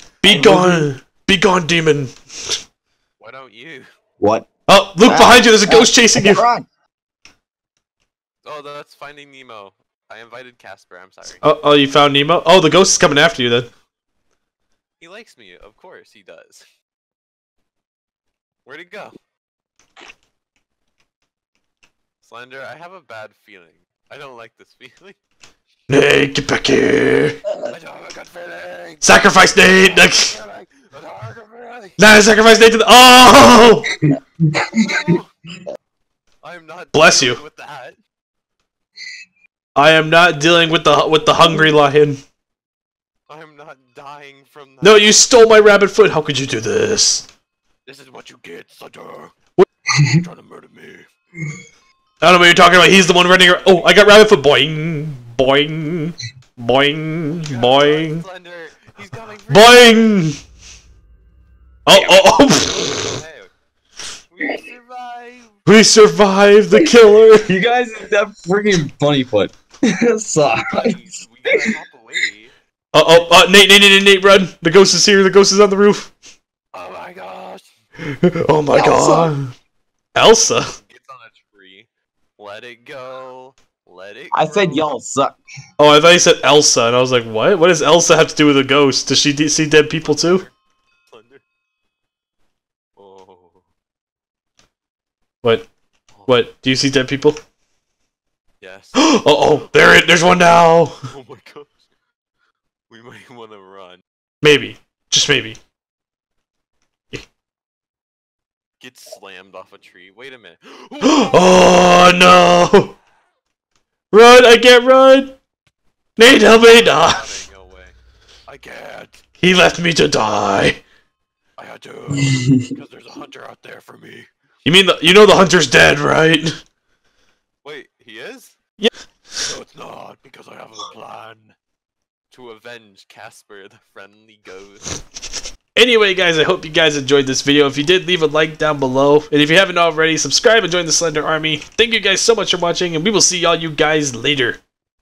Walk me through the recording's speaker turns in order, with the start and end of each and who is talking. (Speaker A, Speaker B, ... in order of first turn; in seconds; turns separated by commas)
Speaker A: 0.2-2.6, Speaker B: 0.2-0.9, Speaker C: 3.2-3.9, Speaker B: 4.2-4.5, Speaker A: 4.7-6.4, Speaker B: 5.0-6.6, Speaker C: 8.4-11.4, Speaker A: 11.4-13.7, Speaker C: 15.0-16.6, Speaker C: 18.6-19.2, Speaker C: 22.2-25.2, Speaker A: 25.9-27.4, Speaker C: 27.6-32.0, Speaker A: 29.0-30.3, Speaker A: 32.0-33.9, Speaker B: 34.5-35.2, Speaker C: 34.8-35.3, Speaker C: 36.4-38.0, Speaker A: 36.9-37.4, Speaker A: 39.7-42.2, Speaker B: 41.5-41.7, Speaker C: 43.3-45.2, Speaker A: 44.8-47.2, Speaker C: 47.9-49.3, Speaker C: 50.0-51.1, Speaker A: 52.2-58.2, Speaker C: 52.5-54.0, Speaker C: 57.3-60.1, Speaker A: 59.5-60.4, Speaker A: 61.9-62.8, Speaker C: 62.0-63.5, Speaker C: 64.3-65.6, Speaker A: 65.7-67.5, Speaker B: 67.5-71.1, Speaker C: 70.5-72.5, Speaker A: 72.9-76.1, Speaker C: 76.7-77.7, Speaker A: 78.2-79.5, Speaker B: 78.7-79.3, Speaker A: 80.1-80.7, Speaker C: 80.8-84.9, Speaker B: 84.3-85.4, Speaker A: 85.8-90.4, Speaker C: 90.0-90.5, Speaker C: 91.1-91.4, Speaker C: 93.0-93.6, Speaker A: 96.2-97.4, Speaker C: 98.6-99.1, Speaker A: 99.0-100.9, Speaker C: 101.1-101.8, Speaker C: 102.9-104.0, Speaker A: 104.4-105.6, Speaker C: 108.8-111.5, Speaker A: 111.0-112.9, Speaker A: 114.1-115.3, Speaker A: 116.2-117.4, Speaker C: 116.2-117.9, Speaker C: 118.5-119.2, Speaker A: 119.4-120.8, Speaker C: 121.6-124.3, Speaker B: 122.2-122.5, Speaker A: 124.6-126.6, Speaker C: 127.6-128.6, Speaker C: 129.4-131.5, Speaker C: 132.3-134.9, Speaker A: 135.8-144.6